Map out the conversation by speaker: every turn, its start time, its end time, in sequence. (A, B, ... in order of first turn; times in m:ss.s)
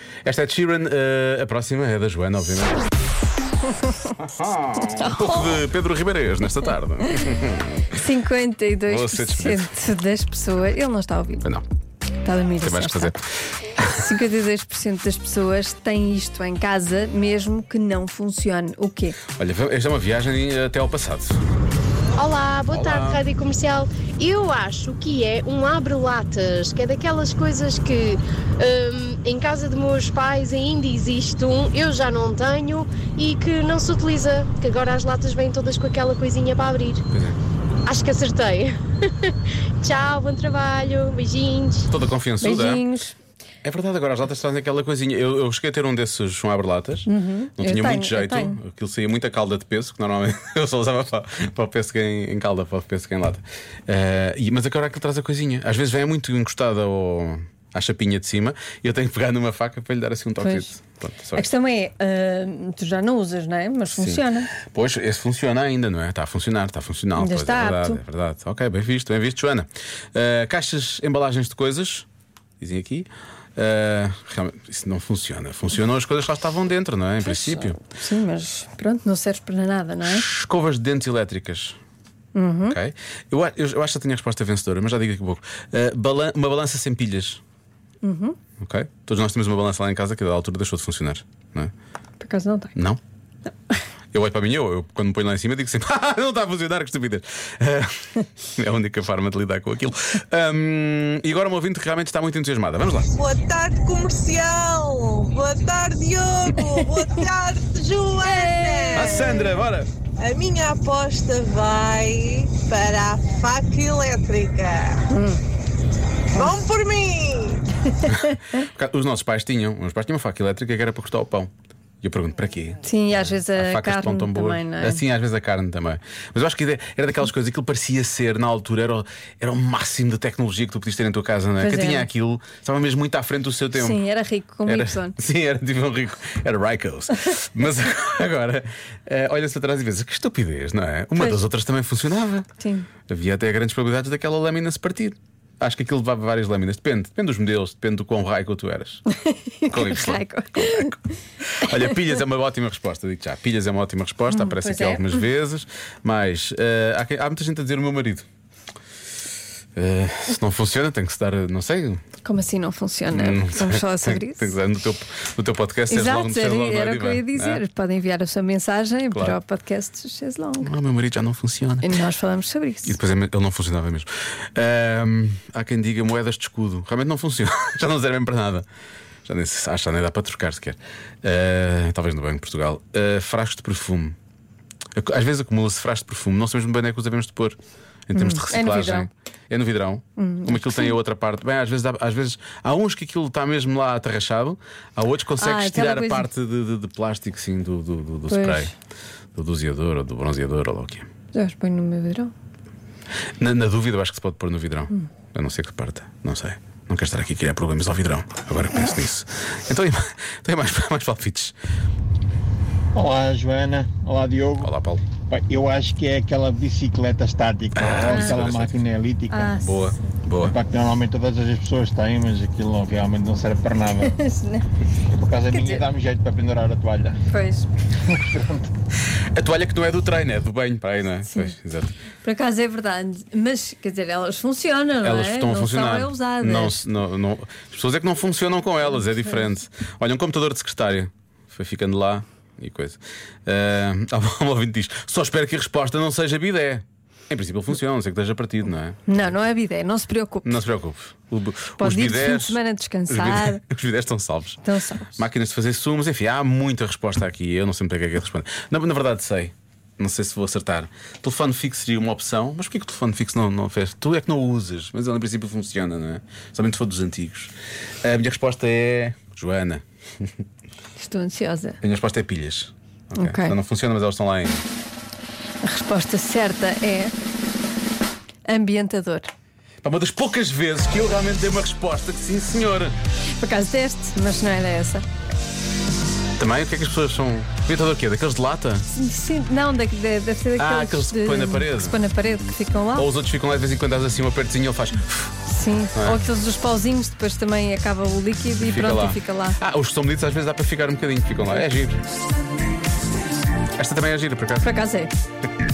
0:00.2-0:02.8 A
0:04.1-0:08.0 A
0:04.8-0:05.6 B
0:07.9-0:11.4 B
0:08.9-0:09.7 A
0:12.2-0:13.2 B
0:12.6-0:13.2 A
0:13.8-0:14.0 A
0:13.8-0:19.2 B
0:19.4-0:21.4 A
0:22.2-0:37.0 C
0:22.7-0:23.2 A
0:37.1-0:37.4 A
0:37.9-0:41.9 C
0:41.9-0:42.8 A
0:42.4-0:43.2 B
0:43.6-1:01.5 A
0:47.1-0:48.6 B
1:00.4-1:00.8 B
1:01.4-1:04.5 B
1:03.9-1:12.1 A
1:07.2-1:08.0 B
1:12.6-1:17.8 A
1:17.2-1:20.2 B
1:20.0-1:21.8 A
1:22.3-1:22.8 B
1:22.7-1:27.4 A
1:28.0-1:28.4 B
1:28.6-1:31.7 A
1:32.2-1:32.8 B
1:34.1-1:43.1 A
1:43.1-1:49.6 D
1:48.2-1:49.5 B
1:48.9-1:49.9 A
1:50.2-1:55.1 D
1:55.1-1:55.4 B
1:56.3-1:57.6 D
1:58.0-1:58.6 B
1:58.1-2:01.5 A
2:02.0-2:02.8 A
2:02.8-2:05.0 B
2:03.6-2:14.0 A
2:11.6-2:12.1 B
2:13.8-2:15.2 B
2:14.7-2:22.5 A
2:22.6-2:22.9 B
2:23.1-2:29.0 A
2:29.2-2:31.0 B
2:29.7-2:31.0 A
2:31.6-2:38.2 A
2:34.3-2:35.2 B
2:39.8-2:42.0 A
2:42.2-2:44.5 B
2:43.1-2:47.6 A
2:45.9-2:50.7 B
2:49.1-2:49.4 A
2:50.6-2:51.9 A
2:51.8-2:53.0 B
2:52.8-2:58.7 A
2:59.3-3:04.2 A
3:05.0-3:07.6 A
3:08.1-3:18.7 A
3:08.2-3:09.1 B
3:10.2-3:10.9 B
3:15.4-3:16.3 B
3:18.3-3:18.7 B
3:19.4-3:21.1 A
3:21.3-3:22.3 B
3:23.4-3:31.5 A
3:33.0-3:34.7 E
3:34.6-3:35.0 A
3:35.3-3:39.5 E
3:37.8-3:38.8 A
3:38.0-3:38.4 B
3:39.3-3:39.9 B
3:39.6-3:40.6 A
3:40.4-3:44.2 E
3:44.0-3:44.7 B
3:45.1-3:47.2 E
3:45.5-3:45.8 B
3:47.3-3:47.7 B
3:48.0-3:48.7 E
3:49.3-3:52.0 A
3:52.2-3:56.8 B
3:55.0-4:09.1 A
4:09.1-4:10.6 B
4:10.4-4:14.6 A
4:11.8-4:13.6 B
4:14.6-4:15.2 B
4:15.2-4:30.3 A
4:31.0-4:31.8 B
4:31.8-4:34.6 A
4:33.2-4:33.6 B
4:35.6-4:37.1 B
4:38.5-4:39.3 B
4:39.8-4:42.9 A
4:43.4-4:45.0 B
4:46.4-4:48.9 A
4:48.9-4:53.1 B
4:50.6-4:52.0 A
4:53.0-4:55.4 A
4:55.5-4:59.6 B
4:56.0-4:56.2 A
4:58.6-5:02.0 A
5:03.8-5:04.7 A
5:04.6-5:05.1 B